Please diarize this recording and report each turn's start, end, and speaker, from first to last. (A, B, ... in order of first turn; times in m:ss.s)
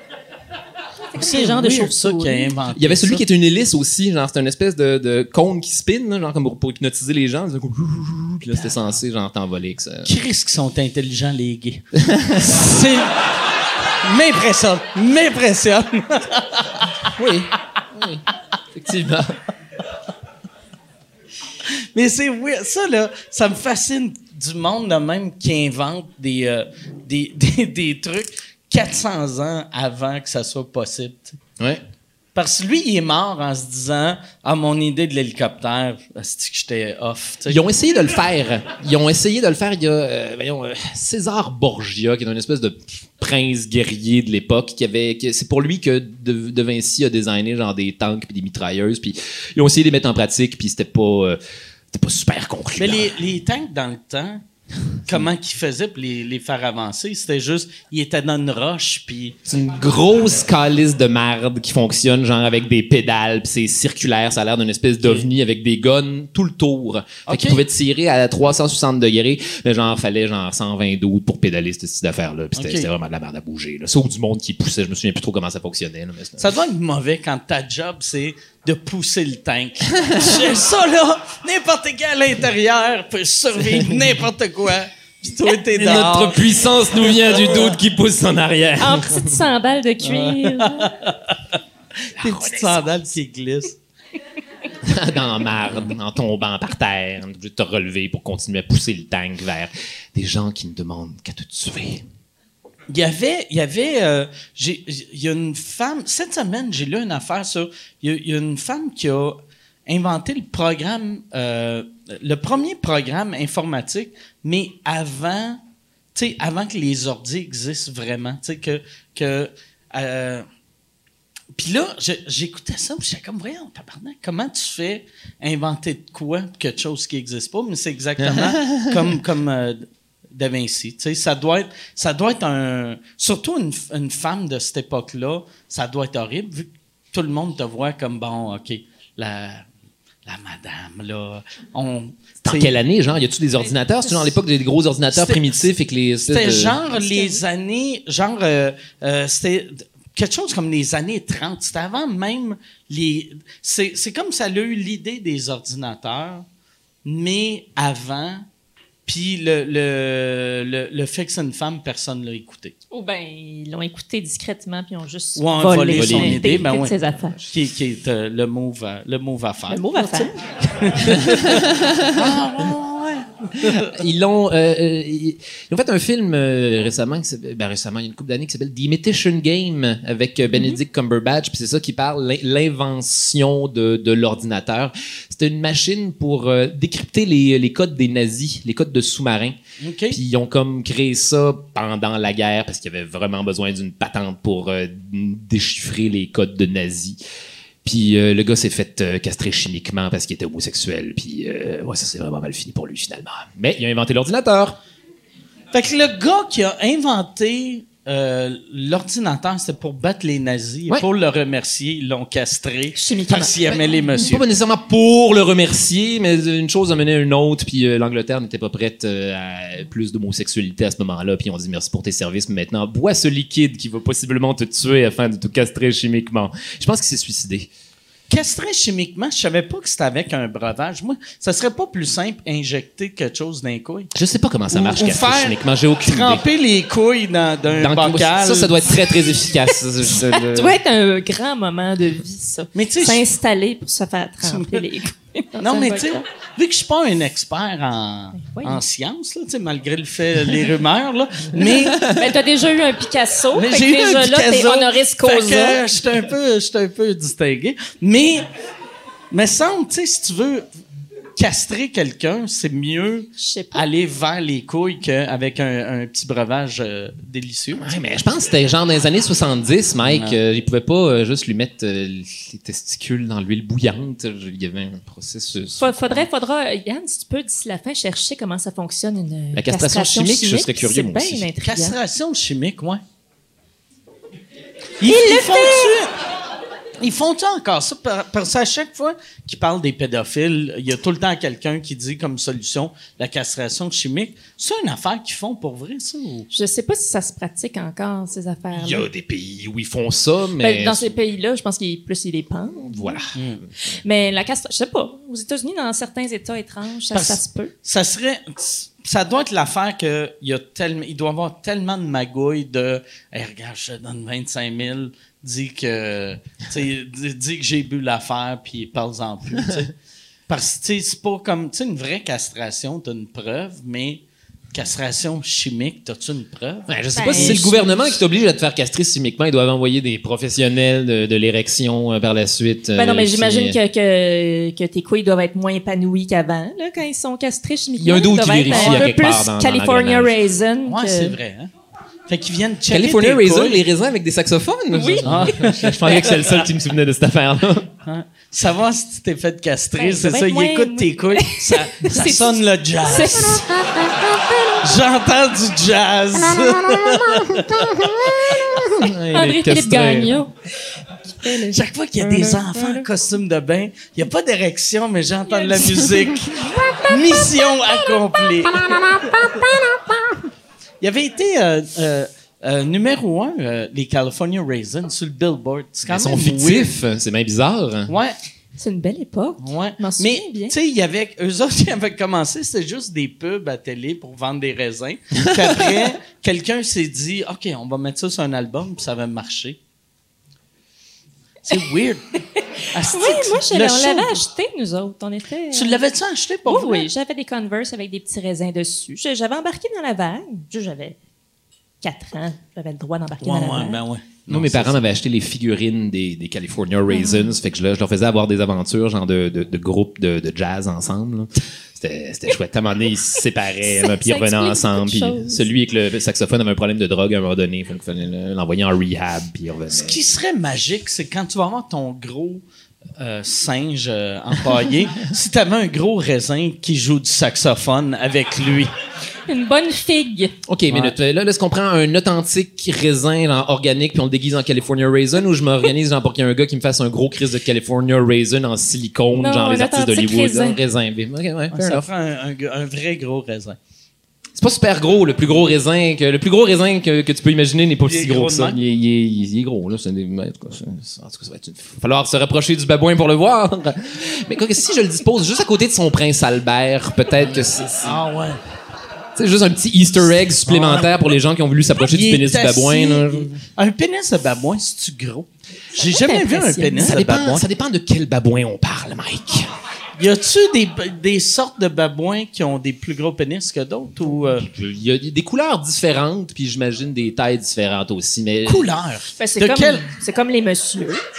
0:01.1-0:02.5 A
0:01.1-0:03.2 B
0:02.7-0:10.1 C
0:10.0-0:13.2 B
0:12.0-0:12.5 C
0:13.9-0:16.9 B
0:17.1-0:19.4 C
0:21.7-0:31.4 B
0:32.3-0:37.6 B
0:37.5-0:51.4 C
0:51.9-0:53.2 C
0:52.8-0:54.4 B
0:55.0-0:59.4 B
0:59.5-1:16.5 C
1:05.0-1:05.3 B
1:07.3-1:07.6 B
1:12.6-1:12.9 B
1:16.4-1:26.5 B
1:20.0-1:20.5 C
1:23.7-1:24.0 C
1:25.7-1:29.4 C
1:27.0-1:27.8 B
1:28.8-1:30.9 A
1:30.0-1:31.4 B
1:32.2-1:33.0 C
1:32.2-1:33.8 B
1:34.8-1:42.0 C
1:42.9-1:55.6 B
1:56.1-2:00.4 B
2:01.5-2:19.7 B
2:08.3-2:09.0 C
2:20.2-2:22.7 B
2:22.4-2:26.8 C
2:25.1-2:25.7 B
2:26.3-2:36.4 B
2:26.9-2:27.4 A
2:37.0-2:38.4 B
2:39.0-2:42.7 B
2:42.9-2:47.4 A
2:45.4-2:54.0 B
2:45.9-2:46.7 C
2:49.7-2:50.4 A
2:51.0-2:52.4 C
2:53.6-3:09.6 C
3:09.8-3:10.2 B
3:10.1-3:17.2 C
3:17.8-3:24.8 C
3:25.7-3:34.4 B
3:33.0-3:33.8 A
3:34.1-3:47.7 C
3:48.3-3:54.1 B
3:54.1-3:56.4 C
3:54.7-3:58.8 B
3:57.8-4:00.8 C
4:00.1-4:06.2 A
4:02.7-4:03.2 B
4:04.4-4:04.9 B
4:05.6-4:12.1 B
4:08.4-4:08.8 A
4:11.6-4:15.8 A
4:13.5-4:18.5 B
4:19.3-4:20.6 B
4:21.4-4:27.9 B
4:23.4-4:23.8 A
4:27.8-4:36.3 C
4:30.0-4:30.4 B
4:35.8-4:42.0 A
4:39.5-4:41.5 C
4:41.6-4:43.0 B
4:45.0-4:46.1 B
4:45.0-4:46.0 A
4:47.0-4:56.5 B
4:56.5-4:59.1 A
4:58.7-5:01.1 C
5:00.6-5:03.3 A
5:02.9-5:03.3 C
5:03.3-5:03.6 B
5:03.9-5:07.7 A
5:07.1-5:19.9 B
5:20.5-5:24.2 B
5:24.7-5:27.6 B
5:26.9-5:33.8 C
5:27.1-5:28.2 A
5:33.0-5:41.4 A
5:38.0-5:40.3 C
5:38.7-5:39.1 B
5:40.8-5:41.7 B
5:42.3-5:43.8 B
5:42.9-5:47.9 C
5:44.9-5:46.4 A
5:45.2-5:46.6 B
5:48.0-5:53.6 B
5:50.0-5:54.7 A
5:54.8-5:58.6 B
5:56.6-6:00.4 C
5:59.3-6:00.5 A
6:01.3-6:03.0 A
6:01.7-6:09.3 B
6:05.7-6:07.1 A
6:08.8-6:09.1 A
6:09.2-6:09.8 C
6:11.0-6:16.9 B
6:16.1-6:18.1 C
6:18.1-6:18.4 B
6:18.8-6:20.7 A
6:19.6-6:29.8 B
6:31.6-6:32.3 B
6:32.9-6:34.4 B
6:33.0-6:36.0 A
6:35.7-6:37.1 B
6:36.6-6:41.2 A
6:42.0-6:44.0 A
6:43.4-6:45.0 B
6:44.5-7:00.2 C
6:47.1-6:47.6 A
6:53.8-6:55.6 A
6:59.9-7:02.6 B
7:03.2-7:08.9 B
7:09.5-7:10.5 A
7:10.7-7:22.0 C
7:10.9-7:11.1 B
7:19.3-7:20.8 A
7:21.7-7:23.8 B
7:24.6-7:38.2 C
7:28.0-7:28.8 B
7:38.0-7:38.6 B
7:39.4-7:43.5 C
7:40.6-7:41.2 B
7:42.1-7:47.6 B
7:46.0-7:47.2 A
7:47.0-7:49.7 C
7:50.2-7:54.7 B
7:54.6-7:58.9 C
7:58.6-8:00.1 B
7:59.4-8:01.2 A